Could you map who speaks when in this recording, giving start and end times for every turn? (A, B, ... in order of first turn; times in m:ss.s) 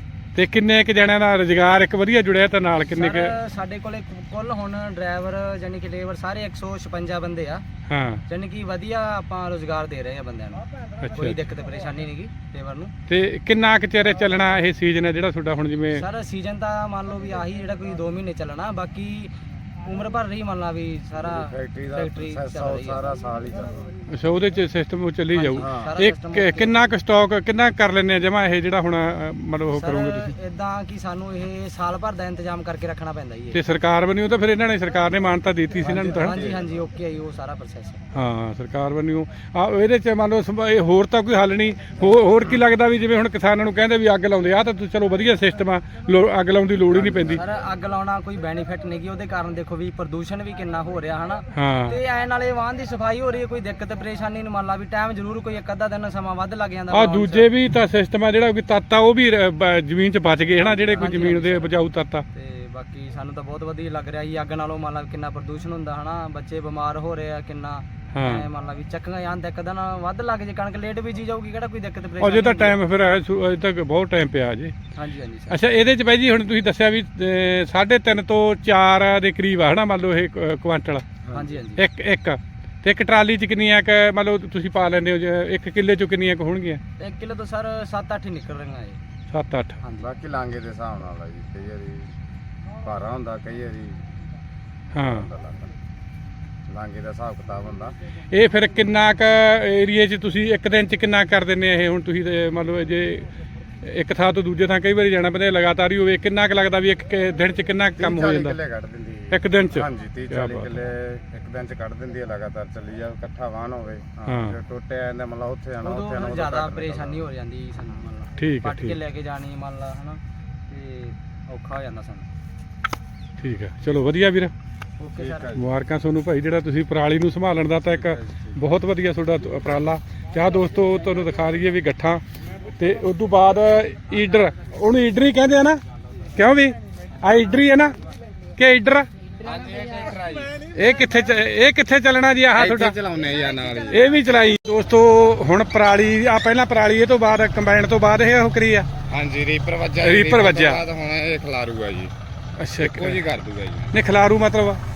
0:00.3-0:03.3 A
0:02.9-0:07.6 B
0:07.9-0:08.2 A
0:08.3-0:12.9 B
0:11.0-0:11.4 A
0:13.1-0:16.0 A
0:15.9-0:23.2 B
0:21.2-0:24.0 C
0:24.1-0:30.3 A
0:25.3-0:26.9 B
0:25.6-0:25.9 C
0:29.7-0:33.6 B
0:33.5-0:36.4 A
0:35.8-0:36.8 C
0:35.8-0:38.0 B
0:38.1-0:47.4 A
0:46.9-0:47.3 C
0:47.3-0:57.5 B
0:51.5-0:52.0 A
0:56.9-1:02.2 A
1:00.6-1:01.8 B
1:02.3-1:12.8 B
1:08.1-1:08.5 A
1:12.2-1:14.7 A
1:15.0-1:15.6 B
1:15.5-1:21.0 A
1:21.3-1:21.6 C
1:21.3-1:21.8 B
1:21.8-1:26.8 A
1:27.0-1:29.0 B
1:29.3-1:29.8 A
1:29.8-1:30.1 B
1:30.0-1:32.1 C
1:32.8-1:34.0 C
1:34.9-1:35.3 A
1:35.0-1:35.7 C
1:36.7-1:38.0 C
1:38.3-1:43.3 A
1:43.8-1:48.6 A
1:48.0-1:57.3 C
1:49.3-1:50.7 A
1:54.2-1:54.6 A
1:55.8-2:02.3 B
1:58.4-1:59.0 A
2:03.4-2:04.5 A
2:05.0-2:05.6 B
2:05.1-2:05.6 C
2:05.5-2:12.2 A
2:07.9-2:08.6 C
2:12.8-2:15.8 A
2:16.3-2:17.9 A
2:18.6-2:19.1 A
2:19.4-2:20.8 C
2:20.7-2:22.9 A
2:22.5-2:24.1 C
2:23.9-2:28.9 A
2:29.1-2:32.1 C
2:30.0-2:30.8 A
2:32.6-2:33.2 A
2:32.8-2:34.0 C
2:33.9-2:34.8 A